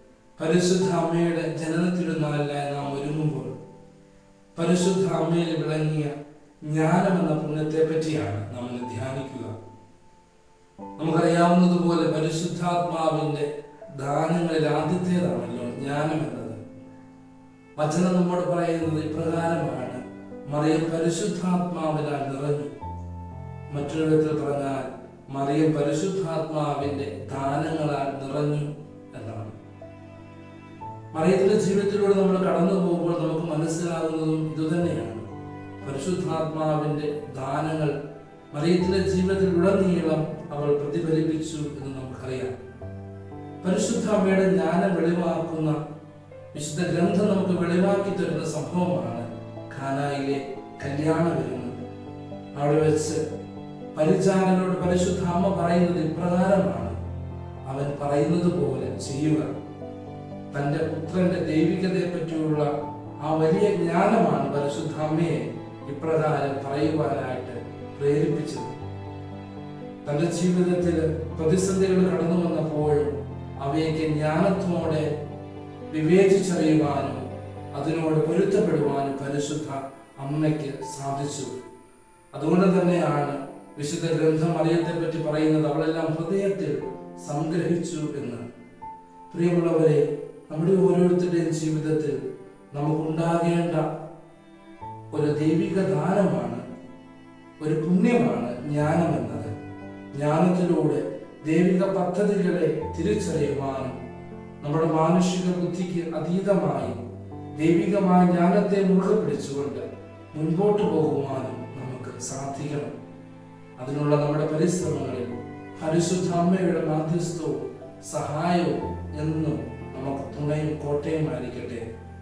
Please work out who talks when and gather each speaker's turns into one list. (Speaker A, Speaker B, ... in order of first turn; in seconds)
Speaker A: 0.4-3.5, 4.5-6.1, 6.6-9.5, 11.0-16.6, 17.8-22.7, 23.7-29.5, 31.1-35.3, 35.8-37.9, 38.5-42.5, 43.6-45.8, 46.5-51.7, 52.5-53.2, 53.9-57.0, 57.7-59.5, 60.5-68.7, 70.0-75.1, 75.9-81.5, 82.3-88.4, 89.3-92.2, 92.7-93.8, 95.1-96.6, 97.6-99.5, 100.1-103.9, 104.6-107.0, 107.6-112.9, 113.8-121.8